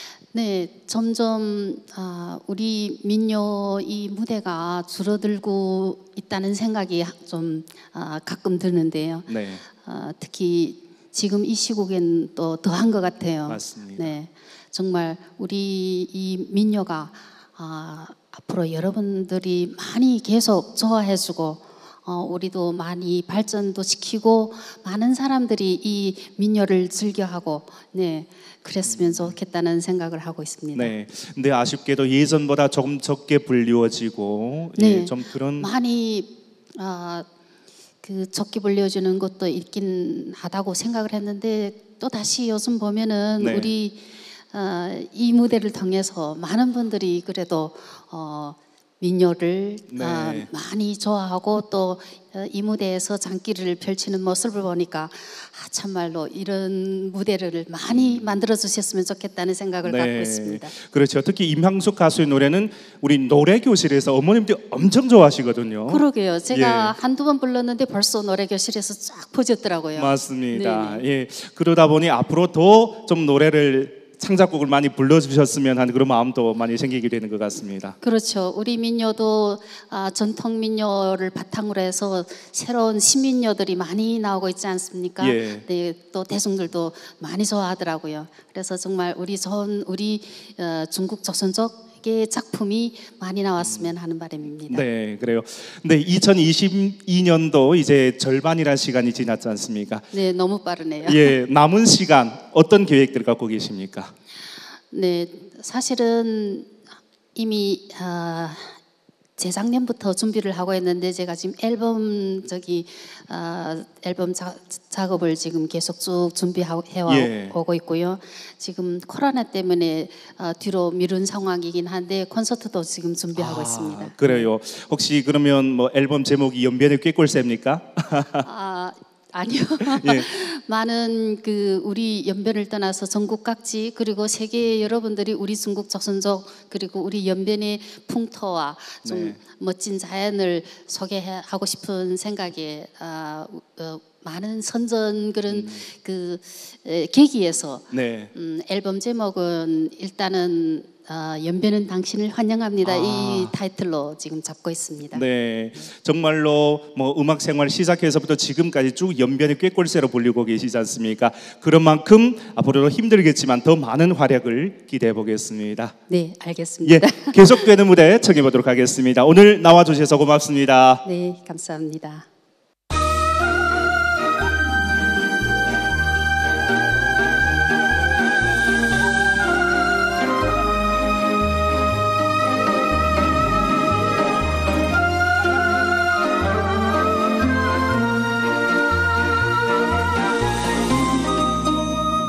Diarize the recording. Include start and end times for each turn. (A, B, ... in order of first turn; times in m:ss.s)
0:00.3-0:30.9 A
0:09.3-0:09.6 B
0:13.5-0:14.1 B
0:28.8-0:29.3 B
0:30.7-0:35.7 B
0:34.8-0:37.3 A
0:38.0-1:00.7 A
0:43.4-0:43.7 B
0:49.9-0:50.5 B
0:57.9-0:58.4 B
0:59.8-1:06.9 B
1:05.9-1:11.0 A
1:10.0-1:18.0 B
1:18.0-1:34.8 A
1:25.2-1:25.6 B
1:33.6-1:33.9 B
1:34.7-1:40.1 B
1:40.1-1:41.3 A
1:41.0-1:44.1 B
1:44.9-1:46.7 A
1:47.3-1:48.8 A
1:49.4-2:04.4 A
1:57.1-1:57.6 B
2:03.3-2:08.4 B
2:08.4-2:35.2 A
2:09.9-2:10.2 B
2:19.0-2:19.4 B
2:25.5-2:25.8 B
2:27.9-2:28.3 B
2:32.8-2:33.5 B
2:35.1-2:45.9 B
2:46.1-2:47.6 A
2:46.8-2:51.0 B
2:51.0-2:52.3 A